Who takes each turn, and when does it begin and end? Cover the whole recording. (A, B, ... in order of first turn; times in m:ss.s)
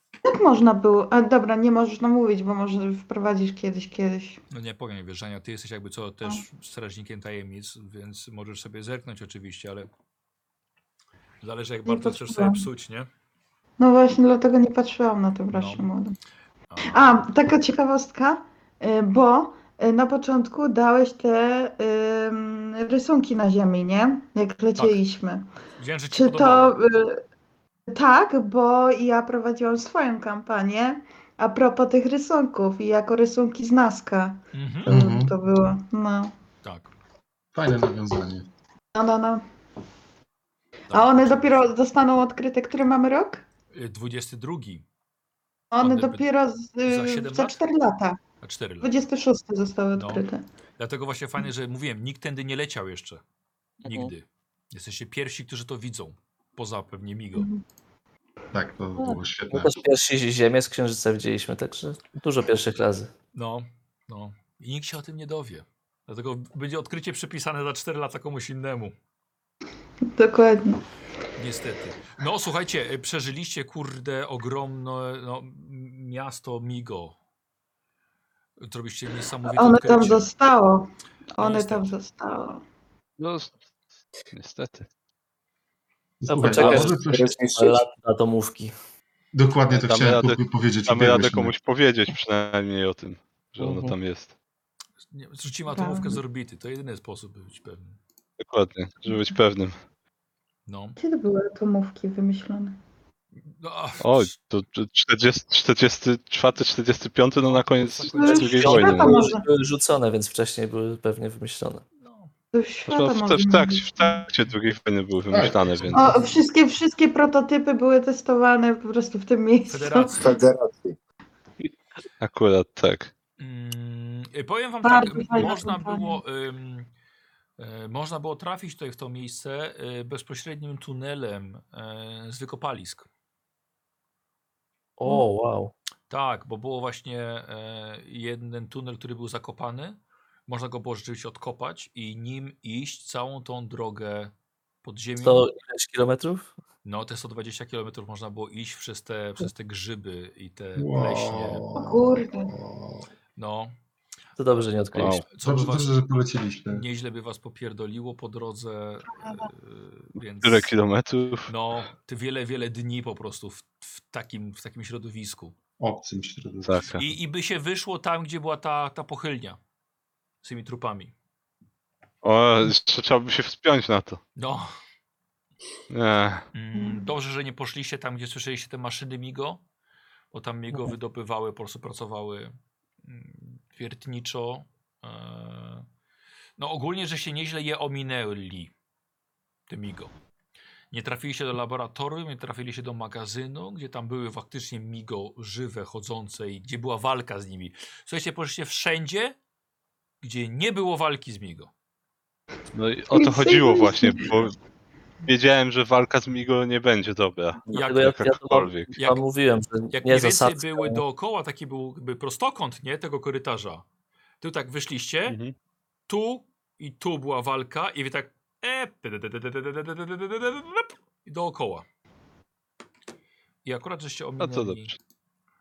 0:00.3-0:04.4 A
0:04.5-0:09.9 B
0:11.4-0:13.1 B
0:11.9-0:12.7 A
0:13.8-0:16.2 A
0:15.5-0:15.9 B
0:16.7-0:17.3 B
0:16.9-0:25.5 A
0:24.8-0:25.0 B
0:25.8-0:26.8 B
0:26.1-0:27.2 A
0:27.9-0:36.3 A
0:34.5-0:35.0 B
0:34.9-0:35.4 C
0:36.6-0:37.0 B
0:37.5-0:38.5 C
0:38.9-0:39.4 A
0:40.9-0:41.7 B
0:40.9-0:43.4 A
0:43.7-0:44.8 B
0:45.7-0:48.2 A
0:45.8-0:46.3 B
0:46.9-0:47.6 B
0:48.4-0:48.9 B
0:48.8-0:50.4 A
0:50.0-0:50.2 B
0:50.8-0:53.2 B
0:53.8-0:54.1 D
0:53.8-0:57.5 B
0:57.4-0:57.6 A
0:58.5-0:59.8 C
0:59.0-1:03.1 D
1:03.3-1:09.0 B
1:10.1-1:10.8 A
1:11.4-1:17.2 B
1:18.6-1:20.3 B
1:19.5-1:22.6 A
1:21.4-1:21.9 B
1:23.2-1:23.6 E
1:24.3-1:24.9 E
1:26.2-1:27.3 C
1:26.3-1:28.7 D
1:26.5-1:27.8 F
1:29.3-1:31.5 C
1:29.7-1:34.3 E
1:33.6-1:34.0 D
1:35.1-1:38.0 B
1:35.7-1:36.2 A
1:38.4-1:39.8 E
1:40.7-1:41.0 B
1:41.0-1:42.8 A
1:43.4-1:44.3 B
1:44.0-1:49.2 E
1:47.4-1:48.9 B
1:48.1-1:49.4 A
1:48.4-1:51.8 D
1:52.0-1:52.3 B
1:52.5-1:54.2 A
1:52.9-1:56.2 E
1:55.3-1:56.2 C
1:55.7-1:56.3 B
1:55.9-2:00.3 A
1:59.7-2:00.4 B
2:00.2-2:01.0 F
2:02.2-2:03.1 E
2:03.4-2:06.9 B
2:04.8-2:06.2 A
2:07.6-2:13.1 B
2:15.0-2:15.7 D
2:16.1-2:24.3 B
2:24.8-2:25.5 B
2:25.2-2:26.5 D
2:26.8-2:31.6 B
2:30.8-2:33.1 C
2:31.8-2:32.5 A
2:33.4-2:33.7 B
2:34.4-2:35.2 D
2:35.0-2:35.2 E
2:35.3-2:36.0 B
2:35.4-2:36.8 C
2:36.7-2:40.7 B
2:39.2-2:39.5 A
2:40.4-2:41.5 E
2:41.5-2:45.6 B
2:45.8-2:47.0 C
2:46.6-2:47.0 E
2:46.9-2:49.6 B
2:50.4-2:51.1 B
2:52.2-2:54.2 E
2:54.4-2:54.7 B
2:55.9-2:56.5 E
2:56.5-2:59.6 B
2:56.8-2:57.1 A
3:00.3-3:05.9 B
3:06.6-3:08.7 B
3:09.7-3:10.1 B
3:10.9-3:19.4 B
3:20.2-3:21.7 B
3:22.7-3:24.6 E
3:23.1-3:24.4 A
3:25.3-3:28.9 E
3:27.7-3:31.0 D
3:27.7-3:28.2 B
3:29.0-3:29.2 B
3:29.9-3:33.8 B
3:34.4-3:35.4 B
3:35.3-3:35.5 E
3:36.1-3:41.9 B
3:43.6-3:45.0 B
3:44.4-3:44.9 E